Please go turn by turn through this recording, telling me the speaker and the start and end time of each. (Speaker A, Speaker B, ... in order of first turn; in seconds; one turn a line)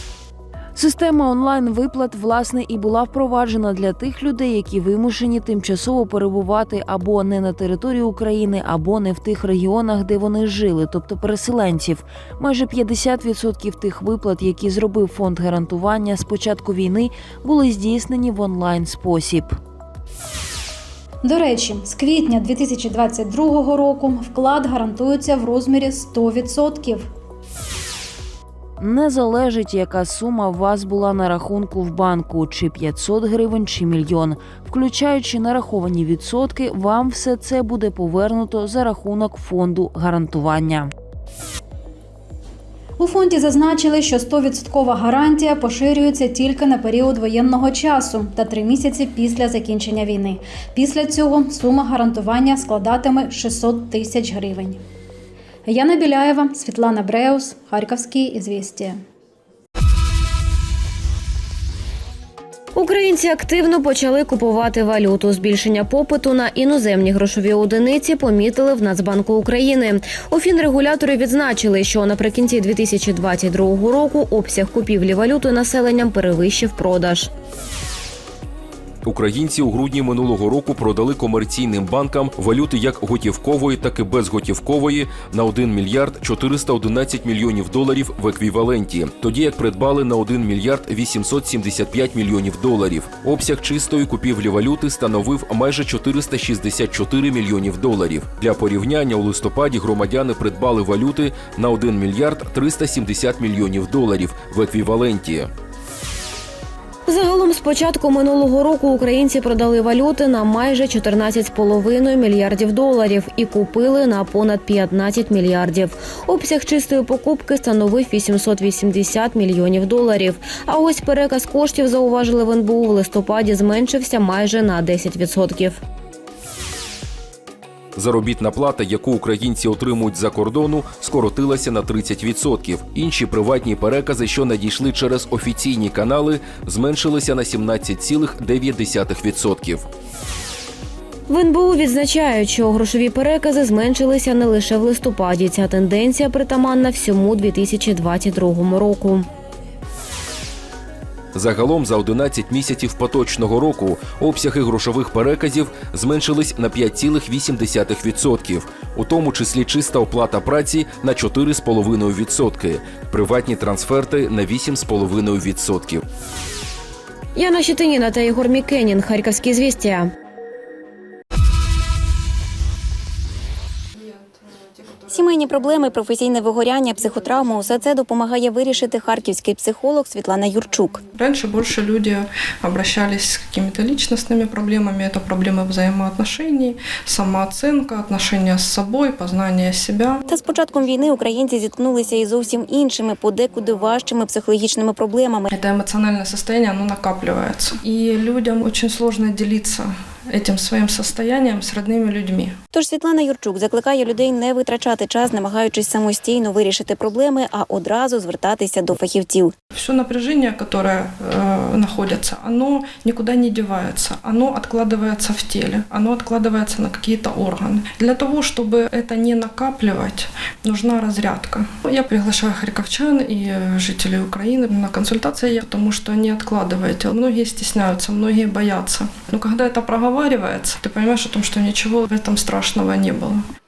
Speaker A: 0.8-19.6
Speaker B: 21.2-27.1
Speaker A: 28.8-40.9
Speaker B: 43.0-54.8
Speaker B: 55.7-59.0
Speaker C: 62.8-77.3
Speaker D: 79.0-105.5
Speaker C: 107.1-125.8
Speaker D: 128.0-139.9
Speaker C: 141.3-149.3
Speaker D: 151.3-166.0
Speaker C: 167.3-170.1
Speaker E: 175.1-181.0
Speaker F: 181.2-190.2
Speaker E: 190.3-195.6
Speaker F: 195.5-202.6
Speaker E: 202.7-209.5
Speaker F: 209.7-233.4